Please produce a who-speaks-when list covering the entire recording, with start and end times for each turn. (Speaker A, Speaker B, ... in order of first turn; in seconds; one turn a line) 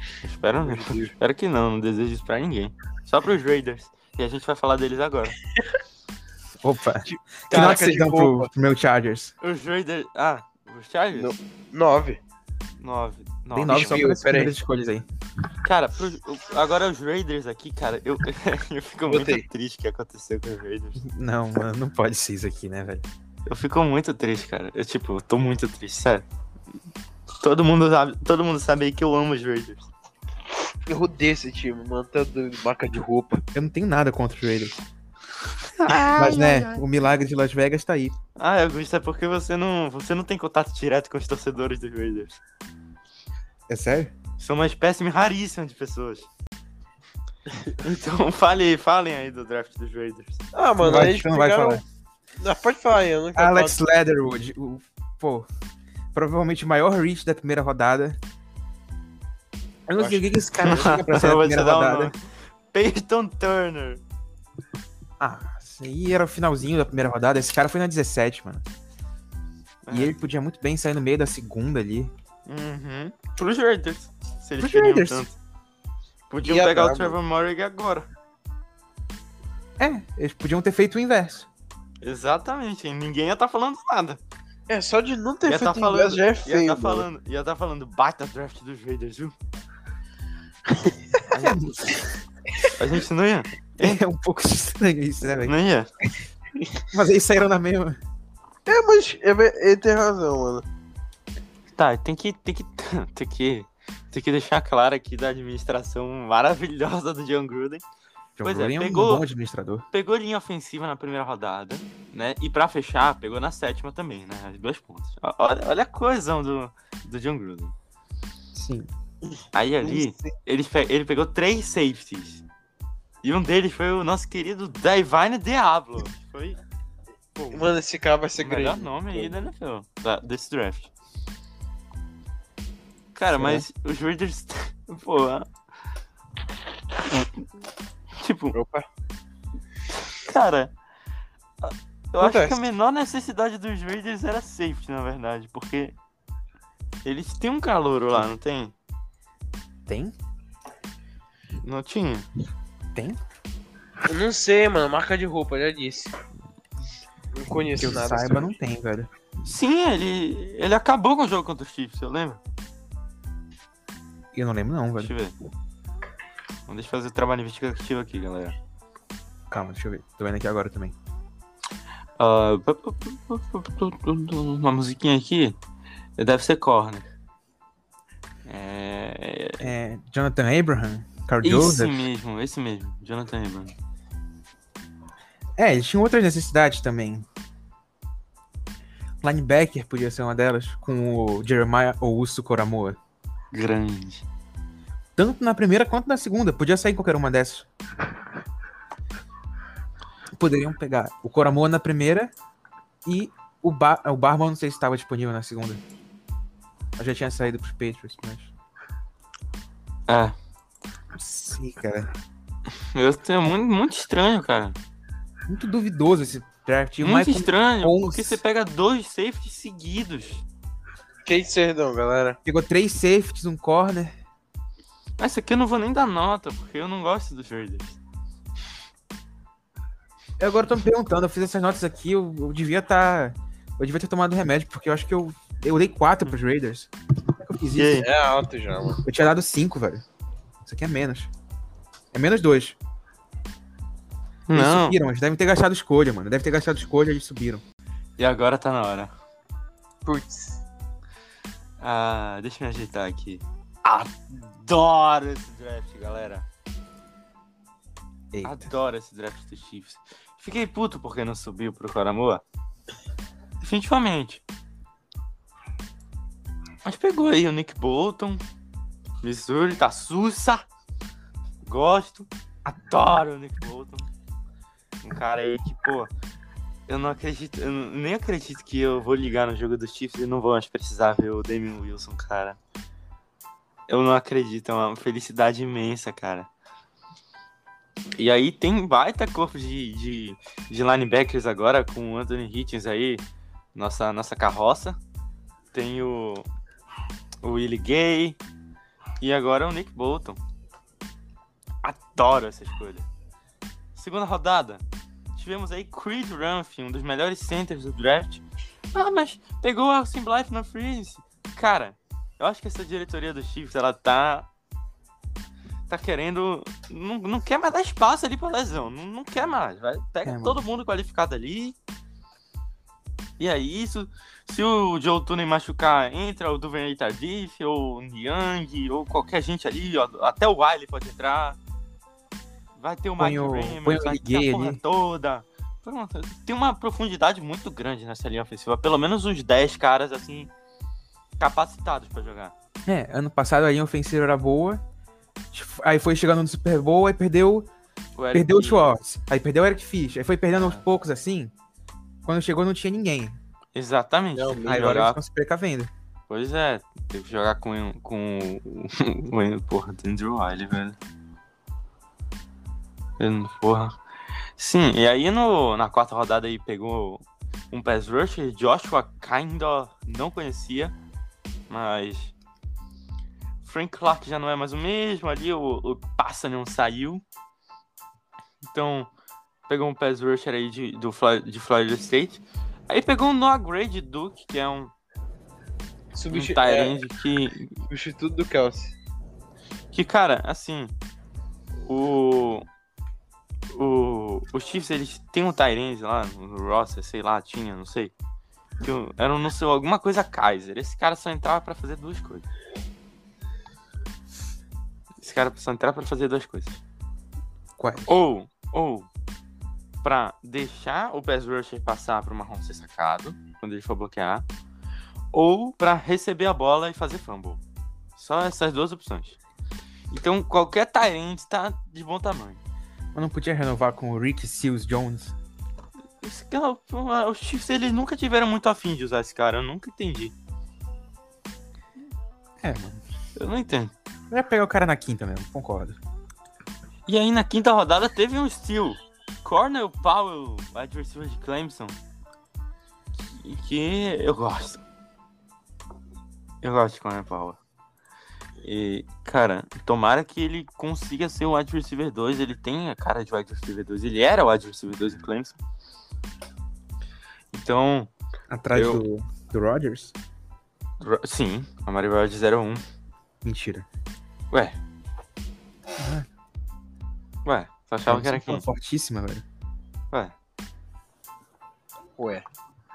Speaker A: 0.2-5.4
Speaker B: 0.6-1.1
Speaker C: 6.6-9.3
Speaker B: 7.0-8.5
Speaker A: 9.4-11.3
Speaker B: 11.2-12.2
Speaker A: 12.8-14.0
Speaker C: 13.5-15.1
Speaker B: 13.7-14.6
Speaker A: 15.6-21.0
Speaker B: 19.1-19.4
Speaker C: 21.0-23.1
Speaker A: 23.5-26.3
Speaker A: 27.4-29.9
Speaker B: 30.9-33.4
Speaker C: 33.5-34.8
Speaker A: 35.6-36.8
Speaker C: 36.1-38.2
Speaker A: 38.4-42.4
Speaker C: 43.7-44.1
Speaker A: 44.4-46.3
Speaker A: 47.8-50.4
Speaker B: 50.5-51.8
Speaker C: 50.8-51.8
Speaker B: 52.4-53.8
Speaker C: 53.4-55.5
Speaker C: 56.1-58.2
Speaker C: 59.9-62.1
Speaker B: 60.0-60.4
Speaker A: 60.6-64.0
Speaker C: 65.2-68.7
Speaker A: 69.8-70.2
Speaker C: 69.9-72.1
Speaker A: 72.5-75.4
Speaker C: 74.6-75.3
Speaker A: 76.3-78.1
Speaker B: 76.4-77.2
Speaker C: 79.8-81.5
Speaker A: 82.0-84.2
Speaker B: 84.7-87.1
Speaker A: 85.5-89.3
Speaker A: 91.3-91.7
Speaker C: 91.4-92.2
Speaker A: 92.7-94.0
Speaker C: 93.8-95.5
Speaker A: 95.4-95.9
Speaker C: 96.9-98.0
Speaker B: 98.7-100.7
Speaker A: 101.8-107.8
Speaker C: 108.4-109.8
Speaker A: 108.4-109.2
Speaker A: 109.9-117.7
Speaker C: 118.5-118.9
Speaker A: 119.5-122.4
Speaker B: 119.8-120.1
Speaker A: 123.2-126.6
Speaker A: 127.4-127.7
Speaker B: 127.5-129.3
Speaker A: 128.4-130.9
Speaker A: 133.2-135.5
Speaker C: 133.3-133.7
Speaker A: 138.2-138.6
Speaker B: 138.5-138.9
Speaker A: 140.0-140.7
Speaker A: 141.6-146.0
Speaker B: 142.2-142.6
Speaker A: 147.1-148.8
Speaker C: 149.9-150.1
Speaker A: 151.6-152.3
Speaker B: 154.1-156.2
Speaker B: 157.3-158.5
Speaker C: 157.8-159.1
Speaker A: 159.4-162.4
Speaker C: 164.3-165.1
Speaker A: 165.0-165.3
Speaker A: 166.7-168.6
Speaker C: 169.5-170.9
Speaker A: 172.2-175.6
Speaker A: 176.2-177.1
Speaker A: 178.5-179.7
Speaker C: 179.6-182.0
Speaker A: 181.4-183.7
Speaker C: 185.6-187.3
Speaker C: 189.2-193.0
Speaker A: 193.5-194.2
Speaker C: 195.2-197.7
Speaker C: 200.3-202.3
Speaker C: 203.1-205.8
Speaker C: 207.0-208.5
Speaker A: 210.1-210.3
Speaker C: 211.2-212.1
Speaker A: 212.8-214.8
Speaker C: 215.5-218.4
Speaker A: 217.0-220.4
Speaker B: 221.2-222.4
Speaker C: 222.4-224.2
Speaker A: 225.2-228.0
Speaker C: 230.4-238.1
Speaker A: 237.7-238.1
Speaker B: 238.0-239.0
Speaker C: 239.0-240.0
Speaker C: 240.6-241.3
Speaker C: 242.1-242.8
Speaker A: 244.5-245.0
Speaker C: 244.5-247.6
Speaker A: 248.2-249.1
Speaker B: 250.1-250.6
Speaker A: 251.8-256.5
Speaker C: 258.3-258.7
Speaker A: 258.4-262.4
Speaker A: 263.6-264.4
Speaker A: 266.8-268.4
Speaker A: 269.2-270.7
Speaker A: 271.6-274.1
Speaker A: 275.0-276.1
Speaker A: 276.9-282.6
Speaker A: 283.9-286.5
Speaker A: 288.2-293.2
Speaker A: 293.8-295.0
Speaker A: 295.7-296.5
Speaker A: 297.4-298.4
Speaker A: 299.2-300.4
Speaker A: 301.8-303.1
Speaker A: 303.9-304.8
Speaker A: 305.4-308.4
Speaker A: 308.9-314.5
Speaker A: 315.9-321.8
Speaker C: 320.2-320.6
Speaker A: 323.4-331.6
Speaker A: 332.8-340.5
Speaker C: 333.2-334.8
Speaker A: 341.4-342.5
Speaker C: 342.9-344.8
Speaker C: 345.5-347.7
Speaker A: 348.2-348.9
Speaker C: 348.3-351.5
Speaker A: 350.6-350.8
Speaker C: 352.2-353.4
Speaker A: 353.8-355.2
Speaker B: 354.4-354.9
Speaker C: 354.6-355.9
Speaker A: 356.3-361.0
Speaker A: 363.2-364.0
Speaker A: 364.6-370.9
Speaker A: 371.7-372.3
Speaker A: 373.6-377.2
Speaker A: 378.6-379.1
Speaker A: 379.7-384.9
Speaker B: 386.1-387.0
Speaker A: 386.3-387.8
Speaker B: 387.9-388.9
Speaker A: 389.9-390.9
Speaker A: 391.9-392.7
Speaker A: 393.7-398.1
Speaker A: 398.8-402.5
Speaker A: 405.2-406.8
Speaker C: 407.8-408.2
Speaker A: 408.1-409.1
Speaker A: 410.0-414.5
Speaker A: 415.3-417.6
Speaker A: 418.2-419.4
Speaker A: 420.1-422.6
Speaker C: 423.1-425.4
Speaker A: 426.2-430.3
Speaker C: 432.6-433.0
Speaker A: 433.4-433.9
Speaker C: 434.3-436.0
Speaker A: 437.1-442.0
Speaker A: 443.2-444.8
Speaker A: 446.6-447.6
Speaker A: 448.6-455.6
Speaker A: 457.5-458.1
Speaker C: 458.5-460.1
Speaker A: 458.7-459.0
Speaker A: 461.0-462.8
Speaker C: 463.4-463.9
Speaker A: 464.5-464.8
Speaker C: 466.0-466.3
Speaker A: 467.4-468.6
Speaker C: 468.1-469.4
Speaker B: 472.2-472.4